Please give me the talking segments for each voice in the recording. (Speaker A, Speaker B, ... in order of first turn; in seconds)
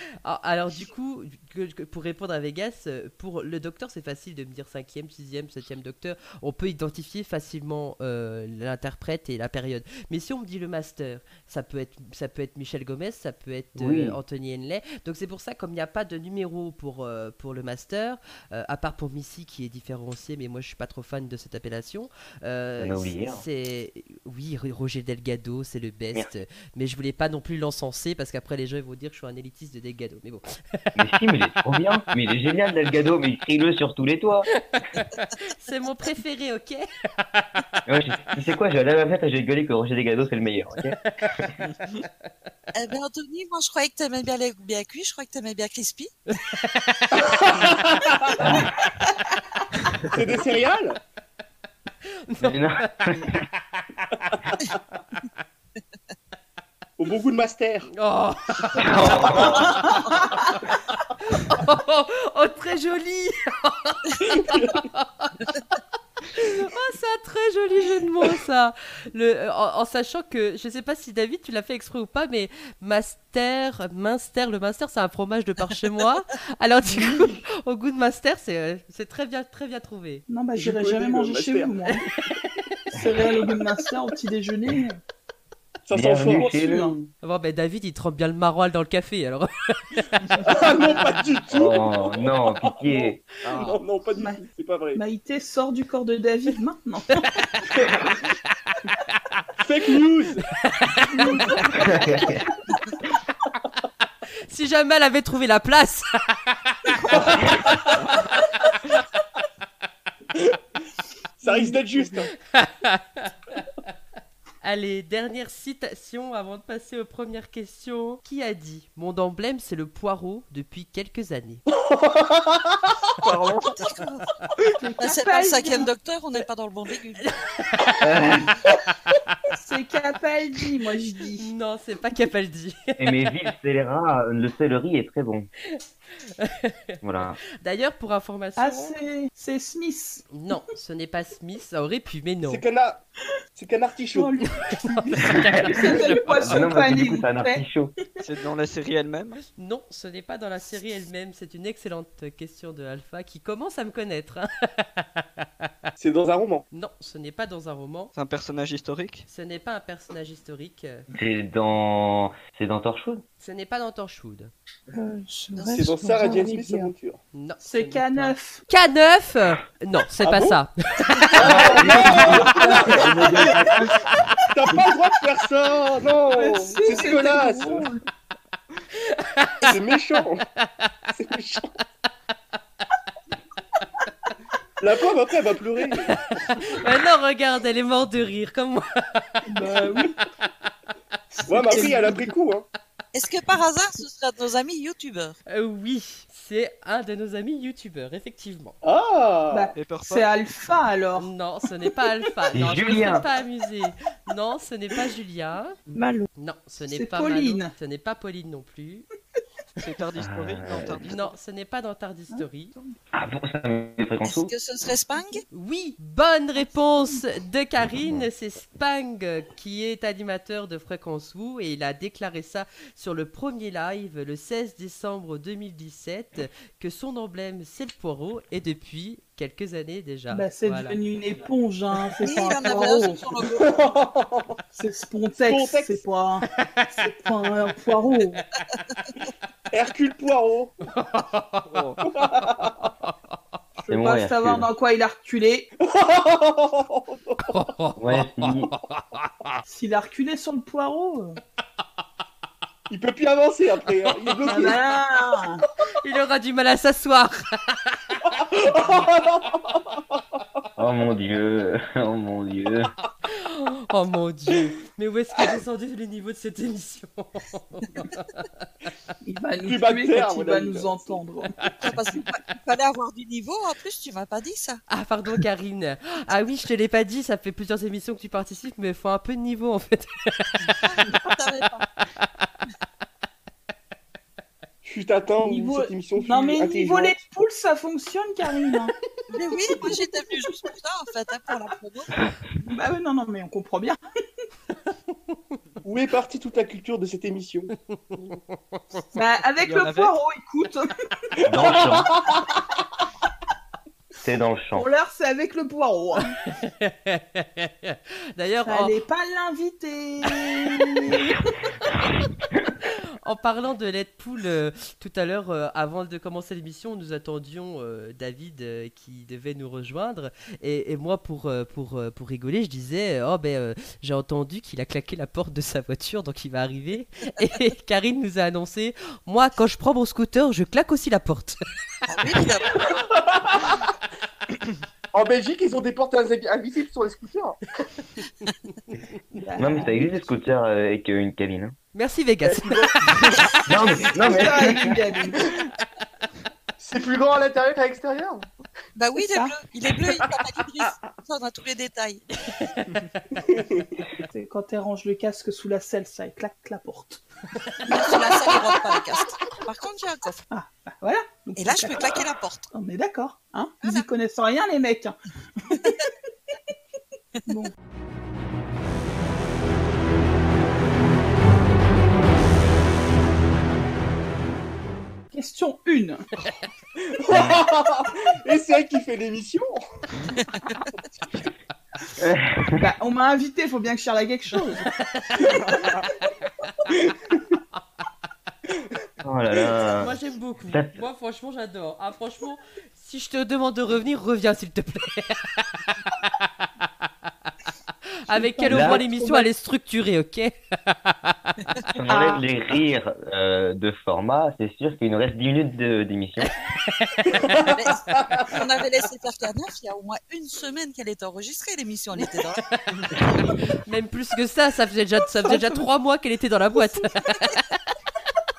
Speaker A: 0.2-30.8, 34.5-37.8, 41.0-41.5, 46.3-47.3, 52.3-54.3, 58.0-60.6, 61.2-65.5, 66.3-80.2, 87.2-90.3, 97.2-97.7, 100.6-102.0, 104.5-107.3, 112.5-113.6, 114.6-121.6, 127.3-128.0, 131.4-133.2, 136.4-136.8, 137.6-138.9, 140.3-142.6, 144.7-146.7, 149.6-155.7, 156.7-158.1, 159.3-161.1, 163.4-164.5, 167.3-172.8, 179.1-179.7, 186.1-190.0, 195.5-198.8, 201.2-205.8, 206.3-209.1, 211.0-212.8, 215.5-231.0, 236.6-236.9, 240.9-241.7, 242.2-243.1, 247.5-249.6, 254.3-254.7, 256.0-258.3, 263.3-268.6, 274.9-280.8, 295.1-295.6, 297.9-299.1, 306.5-308.9, 312.9-331.6, 341.9-343.3, 352.5-352.8, 384.9-385.6, 390.0-396.7, 398.3-401.5, 406.8-407.5, 412.6-412.9, 413.4-417.8
Speaker B: 13.8-14.2, 22.8-23.4, 31.0-34.5, 37.9-41.0, 48.4-48.7, 52.4-53.4, 58.8-59.8, 85.9-87.1, 91.5-93.7, 101.8-102.4, 123.2-123.7, 128.0-128.6, 133.0-135.5, 137.0-137.4, 146.3-147.9, 161.1-163.2, 171.4-174.0, 202.5-203.2, 210.2-211.0, 213.1-214.5, 218.0-218.3, 243.9-244.7, 248.0-248.7, 260.8-262.9, 301.5-302.1, 304.2-304.9, 339.6-341.8, 343.7-344.9, 382.2-382.8, 389.2-390.1, 390.7-391.0, 398.7-399.0, 401.9-406.5
Speaker C: 42.8-46.1, 123.6-124.3, 125.0-127.3, 165.6-165.9, 193.1-195.4, 214.2-215.4, 232.2-233.8, 271.8-274.8, 280.8-281.9, 289.3-292.1, 332.1-332.9, 349.0-352.2, 357.9-360.4, 361.6-362.7, 363.8-364.1, 407.6-412.6
Speaker D: 47.1-48.5, 50.0-51.0, 57.0-57.9, 64.3-64.8, 80.6-81.8, 85.9-86.6, 90.4-95.0, 97.7-98.0, 99.6-100.5, 107.1-108.1, 111.4-112.3, 121.7-123.1, 142.4-143.0, 143.6-144.3, 144.8-145.5, 156.0-156.7, 165.7-167.2, 170.2-170.6, 171.2-173.5, 174.5-177.9, 179.6-180.4, 181.1-181.7, 184.8-186.3, 191.5-192.7, 198.8-199.7, 233.6-234.6, 235.4-236.0, 239.7-240.7, 242.0-242.9, 245.8-247.5, 252.9-254.8, 258.2-260.2, 269.6-271.2, 284.8-287.2, 295.8-297.7, 301.4-302.6, 332.9-333.7, 335.1-337.6, 342.5-343.5, 346.8-348.5, 350.9-351.2, 353.4-354.0, 377.0-379.9, 387.0-387.6, 407.3-408.5
Speaker E: 59.9-60.3, 80.3-82.0, 82.9-85.0, 86.5-86.9, 90.4-91.0, 94.2-94.4, 95.0-97.4, 101.1-103.0, 111.4-112.1, 124.8-125.9, 129.5-131.5, 138.6-140.3, 144.1-144.6, 145.2-147.6, 167.6-168.6, 171.6-174.1, 176.3-178.0, 189.5-190.2, 191.4-192.3, 199.5-201.3, 206.9-207.7, 212.3-212.9, 230.3-233.3, 234.8-238.4, 243.8-245.7, 249.7-251.4, 254.4-255.7, 269.2-271.5, 285.4-288.9, 292.6-294.0, 299.1-300.9, 304.8-306.4, 308.6-311.6, 339.3-340.2, 344.2-345.5, 349.1-349.6, 354.3-357.2, 360.5-366.0, 367.5-367.7, 375.3-376.3, 382.8-384.9, 398.3-399.5, 402.1-402.4, 415.4-415.9
Speaker F: 148.2-149.4, 158.1-159.3, 199.8-200.3, 209.8-211.3, 241.7-242.0, 299.6-300.1
Speaker G: 164.9-166.9, 205.9-206.3